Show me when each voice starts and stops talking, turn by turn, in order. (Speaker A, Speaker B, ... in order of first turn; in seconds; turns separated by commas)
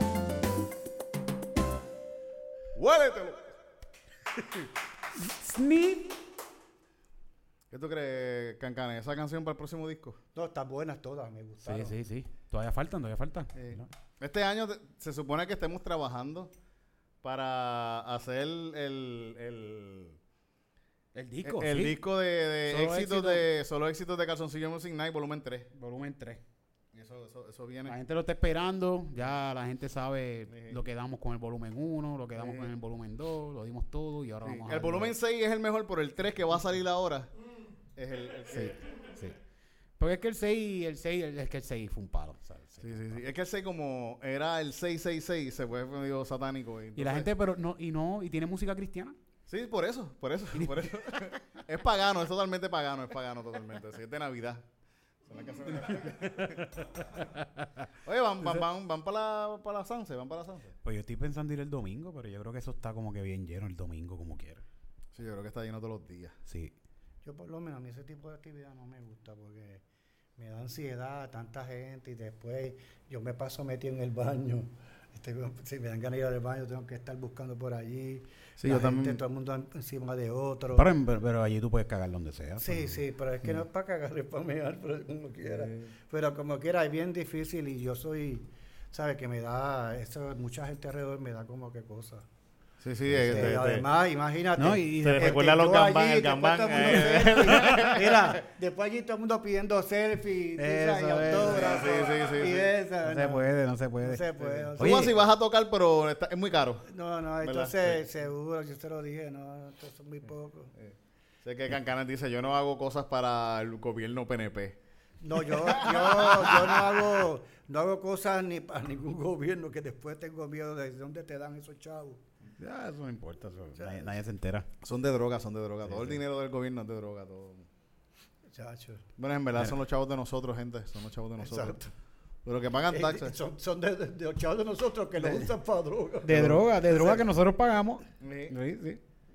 Speaker A: 2.8-3.5, Speaker B: 5.2-6.2, Speaker A: 7.7-10.2, Speaker C: 10.3-11.9, Speaker B: 11.7-13.9, Speaker A: 13.6-16.5, Speaker A: 17.2-20.2, Speaker B: 21.1-22.0, Speaker A: 21.4-25.7, Speaker B: 22.7-23.4, Speaker B: 25.8-26.4, Speaker A: 26.9-28.0, Speaker B: 27.9-35.1, Speaker A: 30.5-30.8, Speaker A: 32.4-32.7, Speaker A: 34.4-37.3, Speaker A: 38.0-38.8, Speaker B: 38.5-39.4, Speaker B: 40.0-43.2, Speaker A: 42.8-47.3, Speaker B: 47.0-49.1, Speaker A: 49.5-54.6, Speaker B: 50.5-51.2, Speaker A: 55.3-56.6, Speaker B: 55.9-57.5, Speaker A: 58.0-60.7, Speaker B: 60.8-64.6, Speaker A: 65.1-66.4, Speaker B: 66.5-66.7, Speaker C: 67.2-69.8, Speaker C: 70.4-80.9, Speaker A: 78.6-79.2, Speaker B: 80.7-83.0, Speaker C: 82.6-92.2, Speaker A: 85.5-85.9, Speaker A: 92.8-93.8, Speaker C: 93.2-103.5, Speaker B: 94.6-95.4, Speaker A: 95.0-98.4, Speaker B: 100.6-101.9, Speaker A: 101.3-102.7, Speaker B: 103.0-105.1, Speaker C: 104.0-105.0, Speaker A: 104.8-106.8, Speaker C: 106.9-110.7, Speaker A: 107.4-108.0, Speaker A: 110.8-114.8, Speaker C: 115.2-122.2, Speaker A: 115.6-117.1, Speaker B: 122.6-124.7, Speaker C: 123.8-124.0, Speaker A: 124.8-127.7, Speaker B: 125.9-126.2, Speaker C: 128.5-129.1, Speaker A: 129.2-131.8, Speaker C: 131.4-131.9, Speaker A: 132.4-133.3, Speaker C: 132.9-137.2, Speaker B: 135.2-135.4, Speaker B: 136.2-139.0, Speaker A: 136.3-136.6, Speaker A: 138.2-138.5